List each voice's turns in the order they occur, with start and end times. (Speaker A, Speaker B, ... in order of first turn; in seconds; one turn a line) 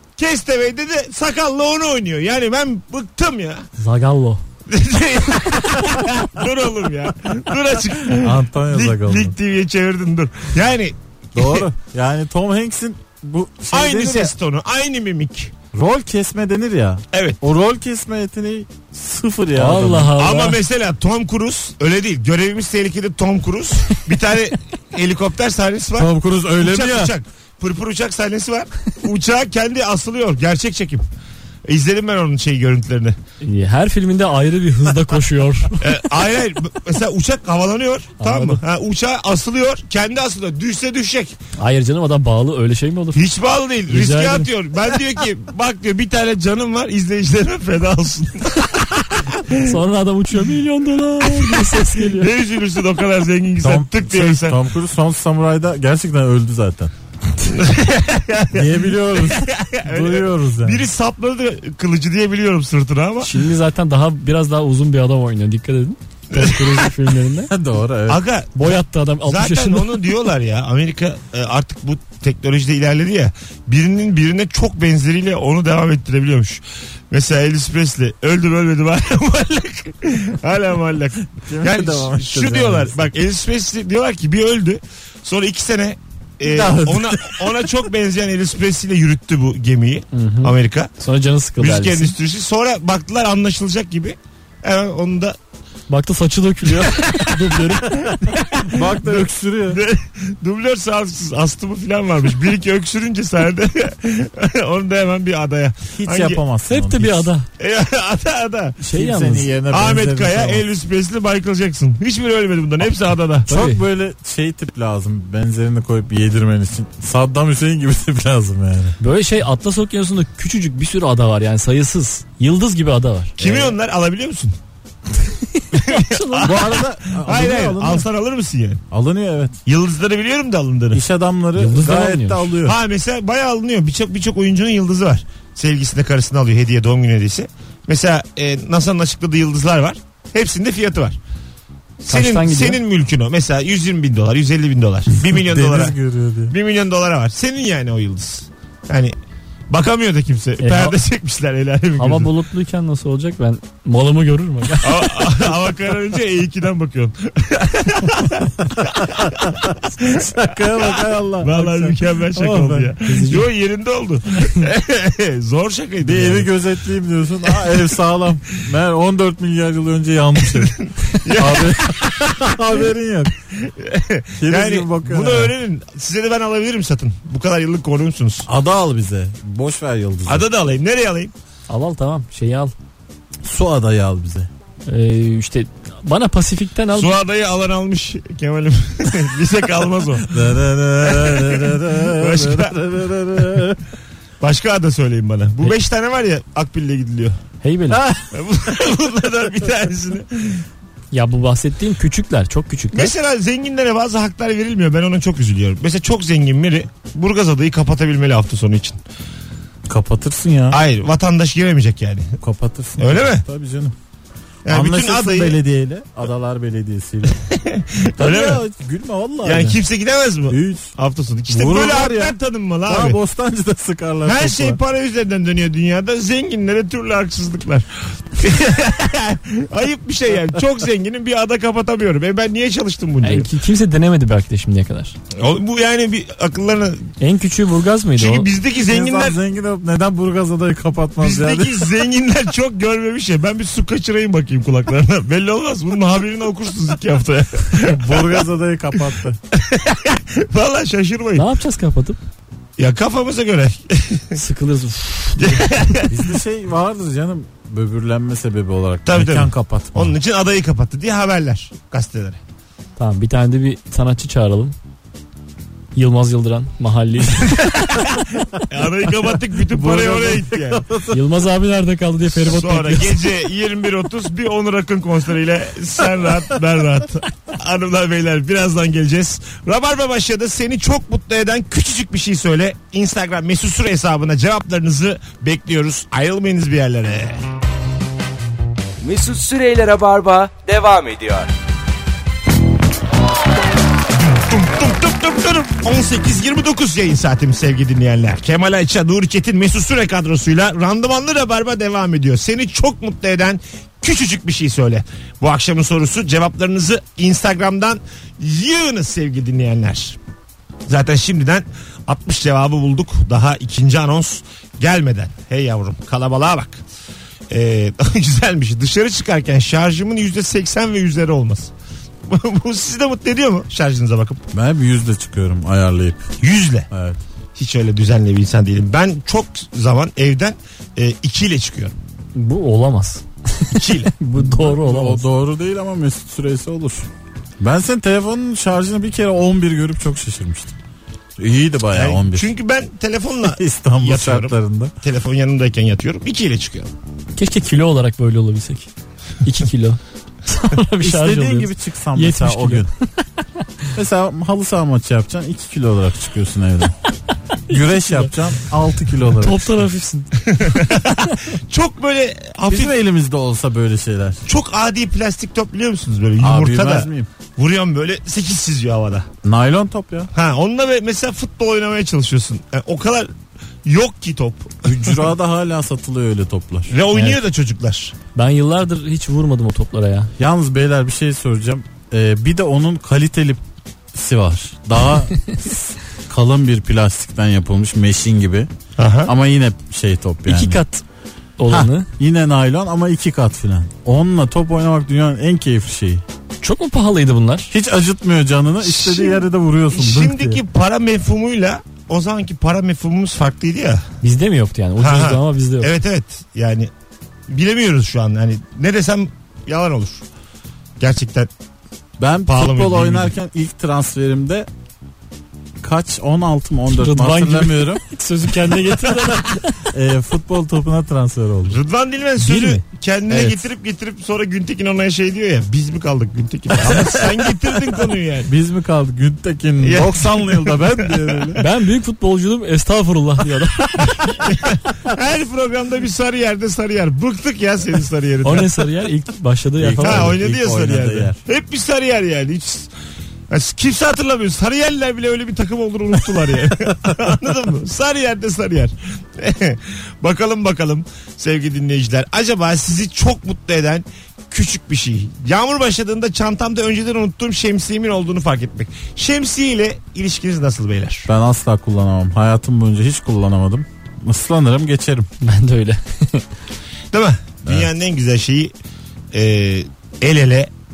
Speaker A: 0.2-3.7
Speaker B: 3.8-4.4
Speaker A: 4.7-11.7
Speaker C: 8.2-9.4
Speaker C: 11.3-14.3
Speaker A: 13.7-15.5
Speaker C: 15.7-20.1
Speaker A: 17.1-17.4
Speaker B: 19.5-20.6
Speaker A: 20.2-31.0
Speaker C: 26.0-27.1
Speaker A: 31.6-33.2
Speaker B: 33.4-36.0
Speaker A: 35.8-41.4
Speaker B: 38.2-38.6
Speaker B: 41.6-43.2
Speaker A: 43.1-49.8
Speaker B: 43.9-44.5
Speaker B: 49.6-52.3
Speaker A: 51.2-54.6
Speaker C: 53.6-56.9
Speaker A: 57.4-63.4
Speaker C: 58.5-60.9
Speaker B: 63.2-67.5
Speaker A: 66.3-66.9
Speaker C: 67.5-68.2
Speaker A: 68.1-90.9
Speaker B: 68.5-70.0
Speaker C: 81.4-83.0
Speaker C: 86.4-87.5
Speaker B: 90.1-92.1
Speaker A: 91.6-95.4
Speaker B: 95.9-98.0
Speaker A: 96.8-106.4
Speaker C: 98.7-99.8
Speaker C: 106.0-107.3
Speaker B: 106.7-107.5
Speaker A: 107.6-108.8
Speaker B: 108.8-109.5
Speaker C: 108.9-110.6
Speaker A: 109.7-113.5
Speaker B: 113.5-113.8
Speaker C: 113.5-119.0
Speaker B: 119.0-123.4
Speaker A: 123.4-124.6
Speaker C: 123.4-123.7
Speaker B: 125.3-126.6
Speaker A: 125.7-128.8
Speaker C: 126.4-128.1
Speaker C: 128.9-129.5
Speaker A: 129.7-131.0
Speaker C: 130.9-132.8
Speaker B: 131.6-132.5
Speaker A: 132.6-141.2
Speaker A: 142.0-146.0
Speaker B: 142.1-142.8
Speaker C: 145.3-146.5
Speaker A: 146.5-149.1
Speaker A: 149.7-152.3
Speaker B: 150.6-151.0
Speaker B: 152.0-154.9
Speaker A: 154.8-166.5
Speaker C: 159.2-162.9
Speaker B: 163.1-163.5
Speaker C: 166.0-173.3
Speaker A: 170.5-172.6
Speaker A: 173.6-178.5
Speaker C: 174.4-175.5
Speaker C: 178.5-180.5
Speaker A: 180.2-181.3
Speaker B: 181.7-182.7
Speaker C: 183.4-184.5
Speaker B: 184.9-187.1
Speaker A: 186.9-190.4
Speaker C: 190.2-193.8
Speaker A: 191.0-192.8
Speaker A: 193.4-193.6
Speaker A: 194.4-197.4
Speaker B: 197.6-198.0
Speaker A: 198.3-200.6
Speaker B: 201.1-203.1
Speaker A: 202.9-209.0
Speaker C: 209.9-210.8
Speaker A: 210.7-212.3
Speaker C: 212.4-213.9
Speaker A: 213.0-213.4
Speaker A: 214.6-215.6
Speaker C: 214.7-217.4
Speaker A: 217.3-218.6
Speaker C: 218.2-219.8
Speaker A: 219.4-223.2
Speaker C: 220.5-220.9
Speaker C: 221.5-222.4
Speaker C: 222.9-224.8
Speaker A: 224.3-233.5
Speaker B: 233.2-235.2
Speaker A: 235.3-237.1
Speaker B: 237.2-238.5
Speaker A: 238.2-239.4
Speaker C: 238.8-241.9
Speaker A: 241.2-248.4
Speaker C: 247.9-249.4
Speaker A: 249.5-251.5
Speaker B: 251.4-252.2
Speaker A: 252.8-254.4
Speaker B: 254.3-255.8
Speaker A: 255.4-256.2
Speaker C: 256.1-260.1
Speaker A: 259.1-262.4
Speaker B: 263.0-264.8
Speaker B: 265.9-268.0
Speaker A: 267.6-270.9
Speaker C: 269.7-271.2
Speaker B: 271.1-273.2
Speaker A: 272.4-287.4
Speaker D: 289.0-291.5
Speaker A: 294.2-310.2
Speaker A: 310.9-316.8
Speaker A: 317.5-321.7
Speaker A: 322.3-324.4
Speaker C: 324.5-326.2
Speaker A: 326.4-326.9
Speaker C: 326.9-327.2
Speaker A: 327.6-331.9
Speaker B: 332.4-335.2
Speaker A: 333.7-334.1
Speaker C: 334.4-337.1
Speaker C: 337.6-340.8
Speaker C: 341.4-342.5
Speaker A: 341.9-346.9
Speaker C: 343.5-344.9
Speaker B: 347.4-348.9
Speaker B: 349.4-353.4
Speaker C: 351.0-352.9
Speaker C: 353.9-356.9
Speaker B: 357.7-358.3
Speaker C: 357.7-359.8
Speaker B: 359.3-360.4
Speaker A: 360.4-362.9
Speaker C: 362.7-364.4
Speaker A: 364.4-369.3
Speaker C: 366.4-367.3
Speaker C: 369.4-370.3
Speaker A: 370.3-373.3
Speaker A: 373.9-375.2
Speaker C: 374.8-376.9
Speaker A: 376.9-378.1
Speaker B: 377.1-377.4
Speaker B: 378.4-380.3
Speaker C: 380.4-383.6
Speaker C: 384.1-388.7
Speaker A: 389.0-389.3
Speaker C: 389.3-390.8
Speaker B: 390.5-391.0
Speaker B: 391.6-392.1
Speaker C: 391.7-396.2
Speaker B: 396.6-397.7
Speaker C: 397.7-400.6
Speaker A: 398.8-404.0
Speaker B: 404.2-405.9
Speaker A: 405.0-406.9
Speaker A: 407.5-410.2
Speaker A: 411.0-411.5
Speaker C: 412.2-414.7
Speaker A: 412.4-413.3
Speaker C: 415.8-418.0
Speaker B: 416.9-419.8
Speaker C: 419.9-421.8
Speaker A: 421.7-428.5
Speaker C: 422.4-423.6
Speaker C: 428.4-431.6
Speaker A: 429.8-431.1
Speaker B: 431.6-434.3
Speaker A: 434.3-438.7
Speaker B: 438.4-440.4
Speaker C: 439.8-441.4
Speaker A: 440.0-442.9
Speaker A: 443.5-461.3
Speaker C: 461.3-465.3
Speaker B: 465.4-466.4
Speaker A: 467.1-468.7
Speaker A: 469.3-470.7